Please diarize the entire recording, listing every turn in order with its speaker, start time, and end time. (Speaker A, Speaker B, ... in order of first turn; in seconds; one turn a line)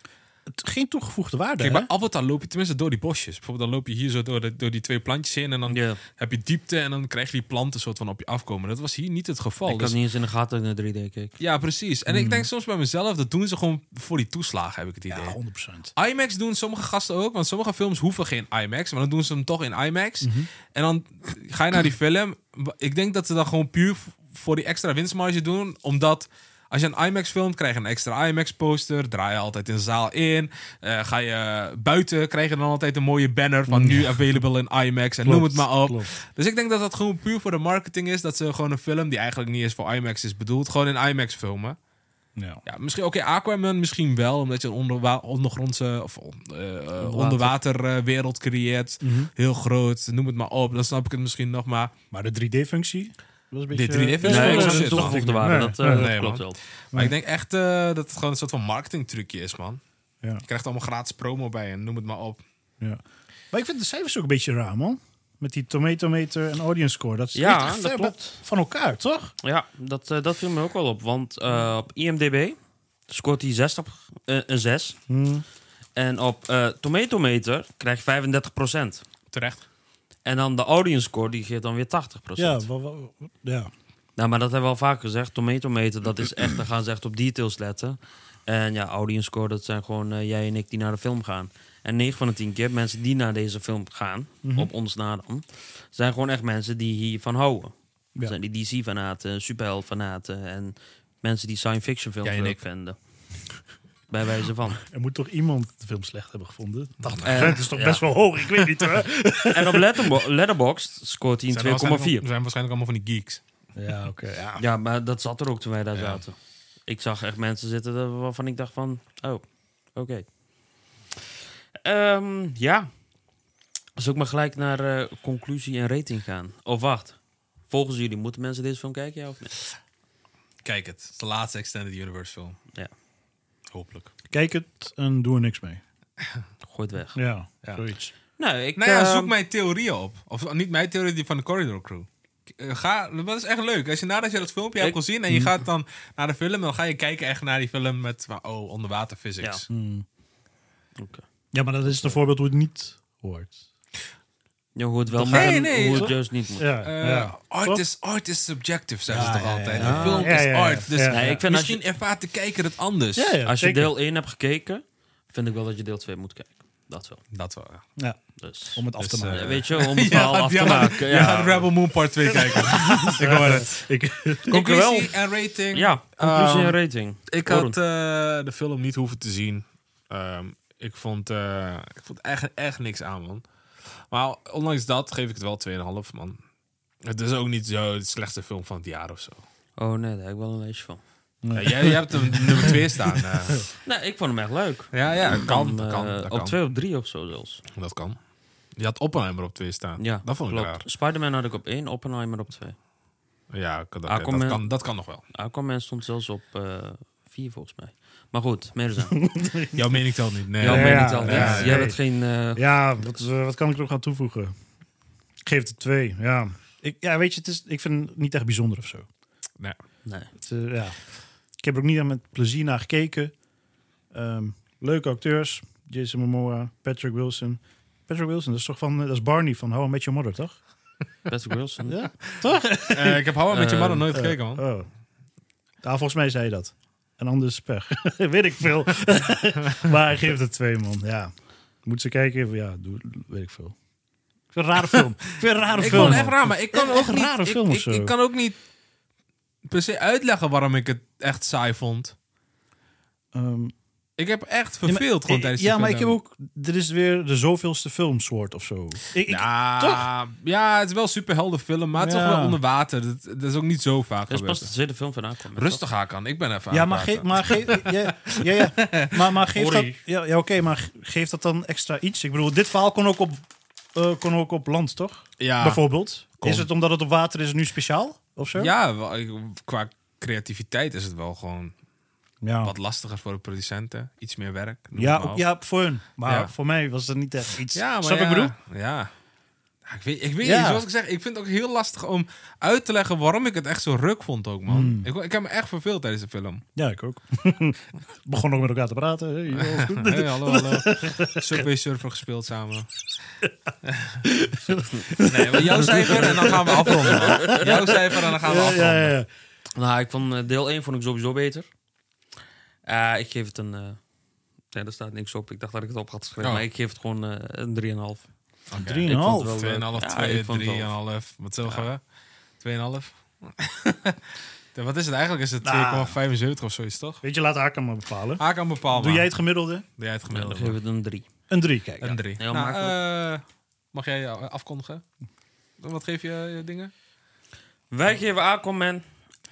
Speaker A: 0.5-1.9
Speaker B: 1.6-10.0
Speaker C: 5.7-6.0
Speaker C: 9.6-11.3
Speaker B: 11.4-15.3
Speaker A: 12.1-12.5
Speaker A: 15.1-15.9
Speaker B: 15.9-41.8
Speaker A: 20.2-20.5
Speaker A: 33.7-34.2
Speaker A: 35.2-36.1
Speaker A: 42.4-42.6
Speaker B: 42.6-51.9
Speaker C: 47.0-47.5
Speaker A: 49.0-49.3
Speaker A: 52.1-56.1
Speaker B: 53.7-59.8
Speaker C: 54.2-56.5
Speaker B: 60.5-62.4
Speaker A: 62.8-69.3
Speaker C: 67.3-68.4
Speaker C: 69.4-72.5
Speaker C: 73.1-75.0
Speaker A: 75.1-75.4
Speaker C: 76.0-79.0
Speaker B: 79.3-79.6
Speaker C: 80.2-82.6
Speaker A: 82.4-83.7
Speaker C: 84.2-103.0
Speaker A: 94.4-94.7
Speaker B: 102.2-102.6
Speaker C: 104.1-104.8
Speaker A: 104.8-110.0
Speaker C: 107.2-108.0
Speaker C: 109.5-112.2
Speaker B: 111.5-113.4
Speaker A: 113.7-114.6
Speaker C: 114.6-116.3
Speaker B: 115.9-116.2
Speaker C: 116.9-119.4
Speaker C: 119.9-120.3
Speaker C: 121.8-122.9
Speaker C: 124.0-129.6
Speaker B: 130.6-132.6
Speaker B: 133.7-134.1
Speaker A: 134.3-135.8
Speaker C: 136.6-137.2
Speaker A: 137.1-138.1
Speaker C: 138.4-139.3
Speaker B: 138.8-149.6
Speaker A: 149.7-150.0
Speaker C: 151.0-151.2
Speaker A: 151.5-153.6
Speaker C: 154.8-156.7
Speaker A: 155.1-157.8
Speaker B: 155.3-156.3
Speaker B: 156.8-163.4
Speaker A: 159.1-161.3
Speaker C: 159.8-160.4
Speaker C: 161.1-161.8
Speaker A: 163.2-163.9
Speaker C: 163.4-167.2
Speaker B: 167.3-167.8
Speaker C: 168.4-171.7
Speaker A: 168.7-169.6
Speaker B: 169.0-173.8
Speaker A: 172.4-174.6
Speaker B: 174.4-183.4
Speaker C: 174.5-175.1
Speaker C: 175.7-177.8
Speaker B: 184.1-186.4
Speaker B: 187.0-189.4
Speaker C: 189.8-191.0
Speaker A: 191.4-193.6
Speaker B: 191.5-193.7
Speaker C: 193.8-197.6
Speaker B: 194.9-196.6
Speaker B: 197.7-198.2
Speaker B: 198.8-200.8
Speaker C: 200.0-202.8
Speaker B: 203.5-205.2
Speaker C: 204.1-204.7
Speaker C: 205.3-209.2
Speaker A: 209.1-209.8
Speaker B: 209.7-211.9
Speaker C: 210.6-213.2
Speaker A: 210.6-212.0
Speaker A: 212.5-214.5
Speaker A: 215.4-219.1
Speaker C: 220.0-220.3
Speaker A: 220.4-221.0
Speaker A: 221.6-223.3
Speaker A: 224.1-230.6
Speaker C: 231.3-232.0
Speaker A: 231.9-233.2
Speaker B: 232.9-234.6
Speaker C: 233.5-234.1
Speaker A: 234.1-234.9
Speaker A: 235.8-241.3
Speaker A: 241.8-243.7
Speaker A: 244.5-248.1
Speaker B: 245.7-248.6
Speaker B: 249.6-252.1
Speaker A: 253.3-253.7
Speaker B: 254.2-256.1
Speaker A: 254.8-260.1
Speaker B: 259.3-264.7
Speaker A: 262.0-262.6
Speaker C: 264.3-265.9
Speaker B: 265.6-269.9
Speaker A: 266.7-273.4
Speaker C: 269.6-269.9
Speaker A: 273.9-278.7
Speaker B: 275.4-276.7
Speaker B: 278.5-281.7
Speaker A: 282.4-282.7
Speaker B: 282.6-285.4
Speaker A: 284.9-288.5
Speaker B: 286.2-286.5
Speaker B: 287.7-289.1
Speaker B: 289.9-296.6
Speaker A: 290.4-290.8
Speaker A: 294.7-295.1
Speaker A: 296.8-301.6
Speaker B: 299.5-303.0
Speaker B: 303.8-304.3
Speaker A: 304.2-309.3
Speaker B: 305.1-309.1
Speaker C: 307.1-307.6
Speaker C: 309.8-311.6
Speaker C: 312.9-314.0
Speaker C: 314.7-318.3
Speaker B: 318.7-322.0
Speaker A: 318.8-319.6
Speaker C: 319.0-320.9
Speaker B: 322.6-324.2
Speaker B: 324.7-327.2
Speaker A: 325.6-326.1
Speaker A: 327.2-329.8
Speaker B: 328.4-329.3
Speaker B: 330.0-330.8
Speaker C: 330.3-331.2
Speaker A: 331.5-332.2
Speaker B: 332.0-335.0
Speaker C: 332.4-333.0
Speaker B: 335.8-336.9
Speaker C: 337.9-339.0